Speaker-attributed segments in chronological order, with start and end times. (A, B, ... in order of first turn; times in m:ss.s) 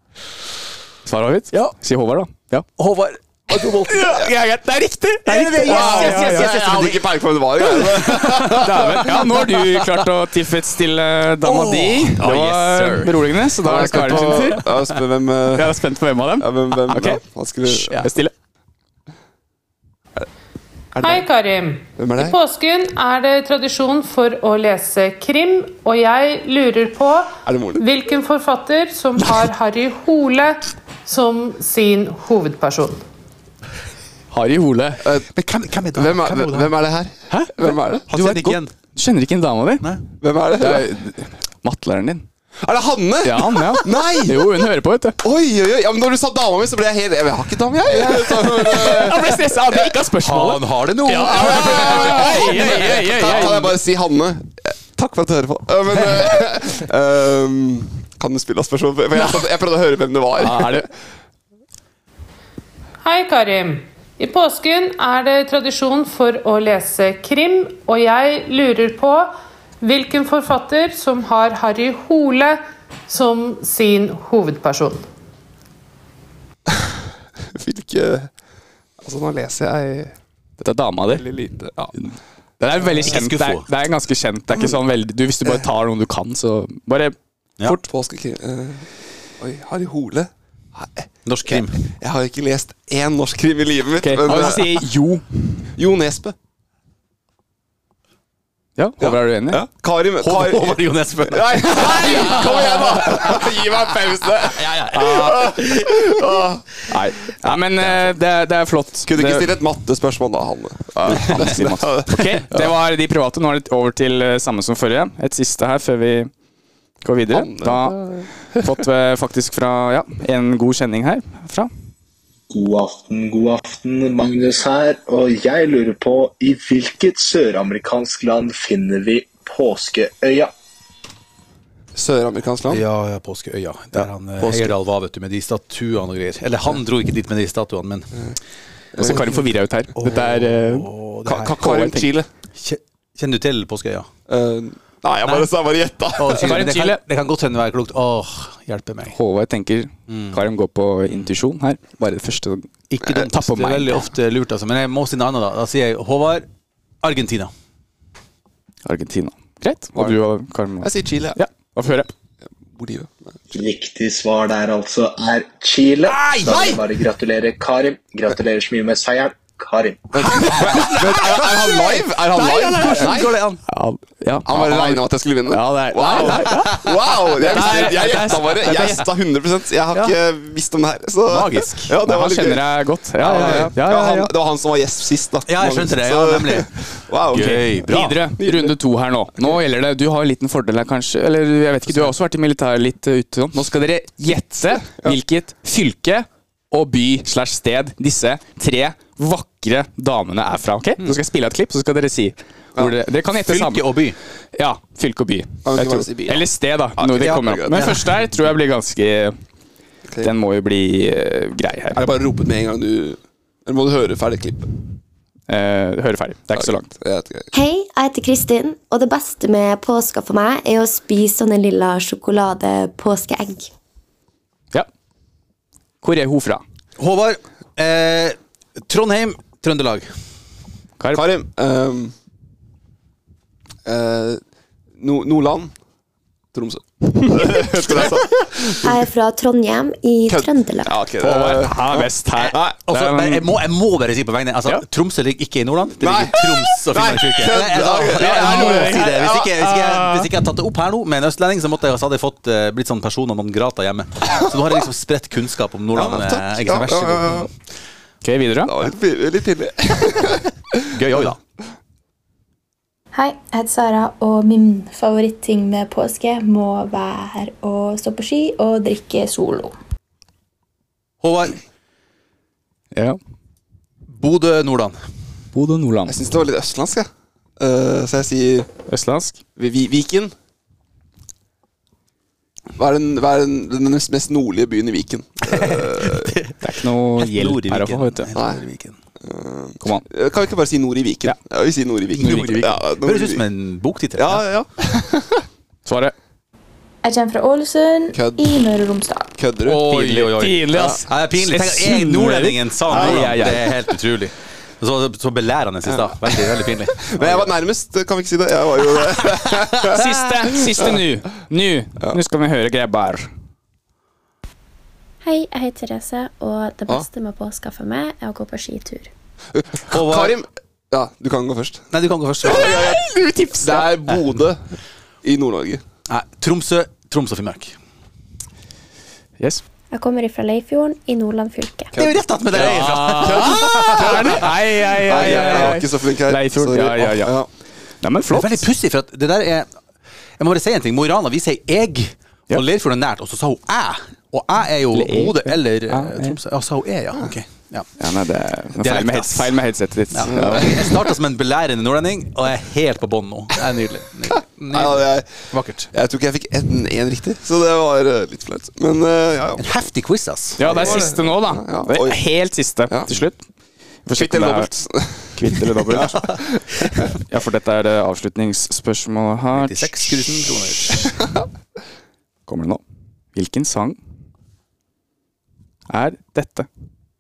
0:01.0-0:02.7 A
0:02.8-0:04.1 B
0:03.9-0:06.6 A
0:05.2-0:07.1 B
0:05.6-0:09.0 C
0:07.6-0:09.8 B
0:08.6-0:14.7 A
0:11.4-0:13.3 B
0:13.6-0:15.8 C
0:13.8-0:14.4 B
0:15.5-0:18.3 A
0:16.4-0:18.1 C
0:21.0-0:21.2 C
0:21.0-0:33.0 D
0:22.0-0:22.4 C
0:27.5-0:27.8 C
0:34.3-0:35.0 A
0:35.3-0:36.7 B
0:35.9-0:38.1 C
0:37.3-0:39.9 A
0:38.1-0:38.8 B
0:40.2-0:40.9 C
0:40.6-0:42.2 A
0:42.6-0:44.6 C
0:43.2-0:45.2 A
0:45.2-0:49.9 C
0:48.0-0:53.7 A
0:50.2-0:53.6 B
0:51.5-1:00.9 C
1:00.4-1:00.9 A
1:03.0-1:15.0 D
1:17.6-1:18.3 C
1:19.0-1:20.1 C
1:20.6-1:21.3 A
1:21.1-1:21.9 C
1:22.0-1:27.8 A
1:23.0-1:23.7 B
1:24.5-1:24.8 C
1:27.9-1:28.9 C
1:29.4-1:34.9 C
1:31.2-1:31.8 B
1:34.0-1:35.2 A
1:35.8-1:36.4 C
1:38.8-1:39.6 A
1:39.0-1:46.6 C
1:40.2-1:43.4 B
1:44.5-1:46.0 B
1:46.9-1:49.5 A
1:47.4-1:48.1 B
1:49.1-1:52.7 C
1:51.1-1:56.3 A
1:57.0-1:58.0 A
1:57.3-1:58.3 C
1:58.6-2:01.7 A
2:02.5-2:10.5 E
2:12.0-2:12.8 C
2:12.7-2:18.1 B
2:13.9-2:14.7 A
2:19.0-2:19.4 C
2:19.0-2:20.9 A
2:19.0-2:19.4 B
2:20.0-2:21.8 B
2:21.3-2:22.3 C
2:21.6-2:22.1 A
2:22.6-2:24.1 B
2:24.3-2:26.6 C
2:25.2-2:25.5 B
2:26.2-2:29.2 B
2:26.4-2:27.0 A
2:29.1-2:32.7 A
2:30.1-2:30.4 B
2:32.9-2:36.5 B
2:33.2-2:34.0 A
2:37.0-2:37.5 B
2:38.8-2:42.1 A
2:40.0-2:40.2 C
2:40.8-2:41.4 C
2:42.8-2:43.2 C
2:43.5-2:50.1 E
2:46.1-2:46.8 B
2:50.1-2:53.3 C
2:50.3-2:53.6 B
2:52.4-2:53.1 A
2:53.7-2:56.8 A
2:54.4-3:07.6 C
2:56.1-2:56.7 B
2:57.4-2:59.0 A
2:57.5-2:59.0 B
3:01.3-3:01.9 B
3:02.0-3:04.3 A
3:03.2-3:03.7 B
3:05.5-3:06.7 B
3:07.3-3:08.2 B
3:07.3-3:23.9 A
3:08.4-3:08.7 C
3:14.8-3:15.2 C
3:23.4-3:24.2 B
3:24.6-3:29.4 A
3:25.6-3:27.9 C
3:27.2-3:28.0 B
3:30.2-3:32.0 A
3:31.9-3:34.7 C
3:35.5-3:36.9 A
3:36.6-3:37.5 C
3:37.5-3:43.7 F
3:46.0-3:46.6 A
3:47.0-3:50.1 B
3:51.0-3:51.2 A
3:51.1-3:52.1 C
3:53.8-3:54.4 C
3:55.0-3:55.8 C
3:56.5-3:58.9 C
3:58.8-4:01.0 F
4:00.3-4:02.8 C
4:01.2-4:03.4 A
4:02.4-4:17.5 B
4:06.0-4:09.4 C
4:08.1-4:10.3 A
4:15.9-4:17.5 C
4:18.2-4:18.7 A
4:18.7-4:20.4 C
4:20.9-4:21.4 B
4:23.1-4:29.7 G
4:31.2-4:31.6 B
4:34.1-4:35.0 B
4:35.5-4:36.2 A
4:36.1-4:38.7 C
4:38.9-4:39.4 A
4:39.6-4:40.3 C
4:42.8-4:46.3 C
4:45.4-4:46.6 B
4:46.6-4:48.3 A
4:47.2-4:49.0 B
4:48.4-4:48.6 C
4:49.2-4:53.4 C
4:52.1-4:54.5 B
4:54.2-4:55.4 C
4:55.9-4:56.1 A
4:57.0-4:59.3 G
4:58.1-4:58.6 C
4:59.4-4:59.8 C
4:59.6-5:07.5 B
4:59.9-5:03.7 A
5:02.9-5:03.4 C
5:05.9-5:06.4 C
5:07.0-5:11.0 C
5:09.9-5:13.3 A
5:15.2-5:19.1 H
5:19.5-5:21.9 C
5:19.9-5:20.3 B
5:21.9-5:22.8 B
5:22.4-5:24.6 C
5:22.5-5:23.9 A
5:25.2-5:25.8 C
5:26.1-5:27.8 B
5:29.9-5:32.0 H
5:31.9-5:37.5 C
5:32.0-5:34.4 B
5:32.5-5:37.4 A
5:35.1-5:35.8 B
5:38.0-5:38.7 A
5:38.3-5:39.7 B
5:40.4-5:47.9 B
5:44.9-5:46.4 A
5:48.0-5:50.9 A
5:48.8-5:49.6 B
5:50.1-5:55.9 B
5:54.7-5:55.3 C
5:55.9-5:59.6 C
5:59.6-6:01.1 B
6:00.6-6:03.4 A
6:00.6-6:02.2 C
6:04.1-6:04.7 A
6:04.2-6:06.4 C
6:05.4-6:06.3 A
6:07.3-6:10.2 A
6:09.5-6:11.1 B
6:12.5-6:12.8 A
6:13.4-6:14.0 A
6:15.9-6:16.7 A